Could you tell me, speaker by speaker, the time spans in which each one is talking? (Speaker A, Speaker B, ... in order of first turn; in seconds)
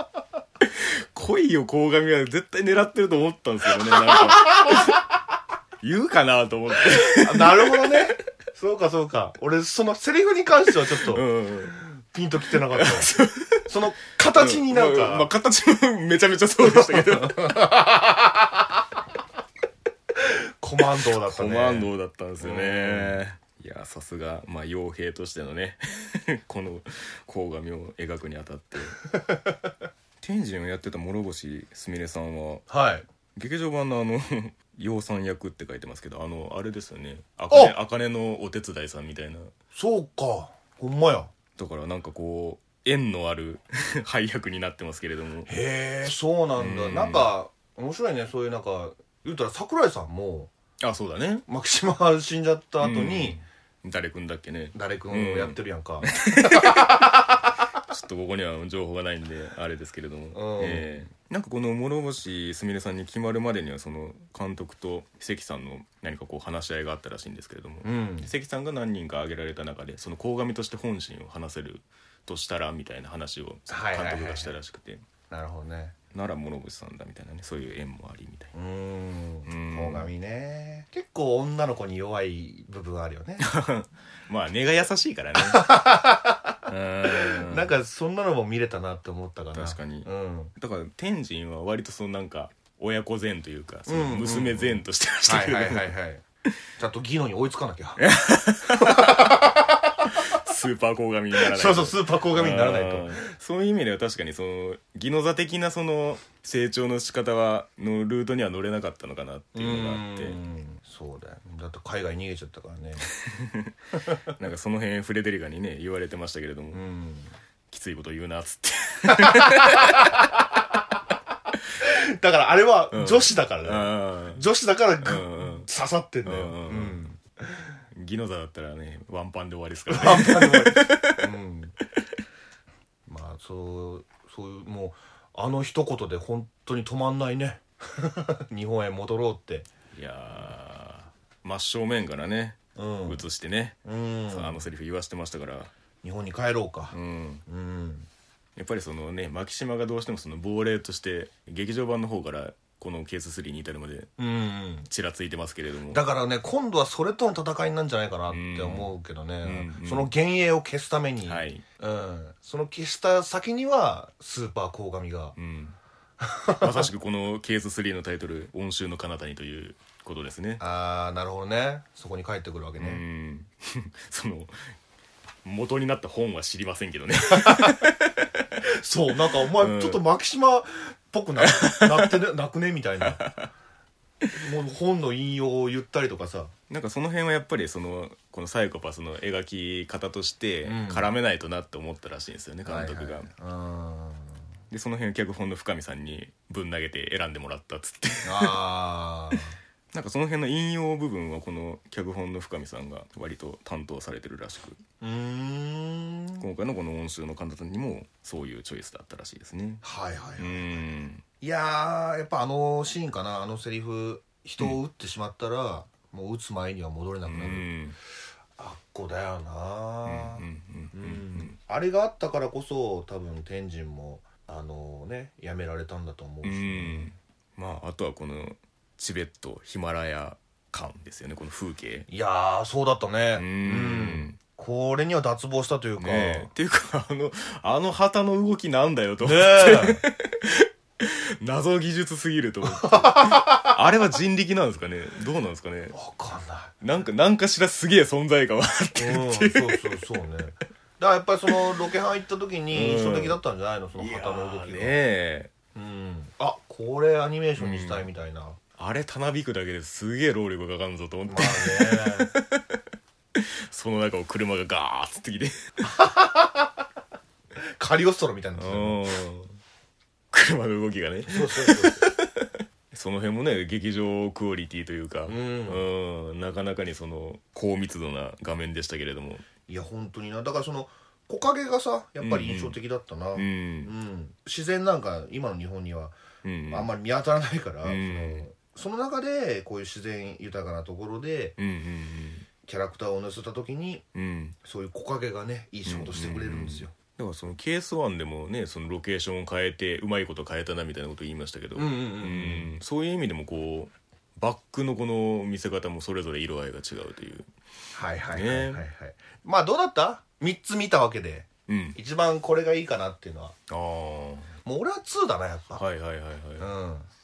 Speaker A: 0.7-5.0, 5.8-8.1, 10.9-11.8, 12.7-13.7, 14.3-17.7, 21.1-29.0, 30.2-32.7, 33.4-39.5, 41.6-45.5, 46.6-47.3, 50.8-51.4, 52.8-55.6, 56.1-57.0, 57.9-75.0, 76.1-78.5, 79.5-80.1, 83.4-85.7, 86.7-87.7, 89.5-95.9, 98.0-99.5, 100.1-110.4, 113.2-113.7, 114.3-116.8, 117.7-120.2, 122.9-124.4, 125.0-125.7, 126.2-127.0, 127.9-131.2, 139.9-145.7, 146.9-147.4, 148.6-154.1, 154.9-156.0, 158.3-160.1, 161.2-161.6, 165.4-165.8, 166.5-170.6, 172.8-174.6, 175.4-178.3, 179.6-180.0, 181.4-182.1, 183.0-183.5, 186.7-193.3, 194.7-198.6, 199.9-204.8, 206.4-209.8, 210.4-211.2, 217.3-217.9, 220.1-221.6, 226.4-232.1, 233.3-234.4, 236.0-246.0, 246.8-250.0, 252.7-253.4, 254.0-255.5, 257.6-258.1, 258.8-262.8, 263.4-265.6, 268.6-269.6, 270.3-279.5, 282.2-282.8, 283.4-283.9, 286.4-286.9, 287.8-288.5, 291.6-292.5, 294.1-294.6, 295.9-307.5, 308.3-308.9, 311.7-312.0, 313.7-314.5, 315.7-316.7
Speaker B: 4.1-4.9, 6.9-13.1, 13.7-15.3, 16.7-18.6, 20.2-23.2, 29.0-29.7, 32.7-33.1, 39.7-41.3, 45.5-50.5, 51.5-53.4, 54.7-57.5, 60.3-61.1, 67.8-68.3, 73.7-74.5, 75.3-76.0, 78.5-83.5, 85.4-90.5, 93.9-96.2, 96.8-98.1, 98.7-99.9, 101.4-103.2, 109.5-113.1, 113.9-114.2, 116.7-117.3, 119.2-120.3, 121.8-127.7, 129.9-131.7, 133.1-139.7, 142.8-143.3, 143.8-144.7, 146.0-148.1, 154.2-154.9, 155.9-165.3, 166.2-166.9, 170.6-173.0, 177.3-177.8, 178.6-183.2, 184.4-186.5, 190.7-191.1, 192.7-194.4, 198.2-199.6, 205.0-206.5, 209.8-217.7, 218.6-227.1, 232.1-236.5, 239.2-240.0, 242.7-243.8, 245.9-246.7, 249.0-255.0, 255.8-258.6, 261.3-262.3, 265.8-266.8, 267.8-269.0, 271.3-272.1, 275.3-275.9, 279.7-286.1, 286.7-291.6, 292.7-294.0, 294.6-296.9, 301.8-302.7, 307.9-313.6, 314.6-315.8, 316.6-317.1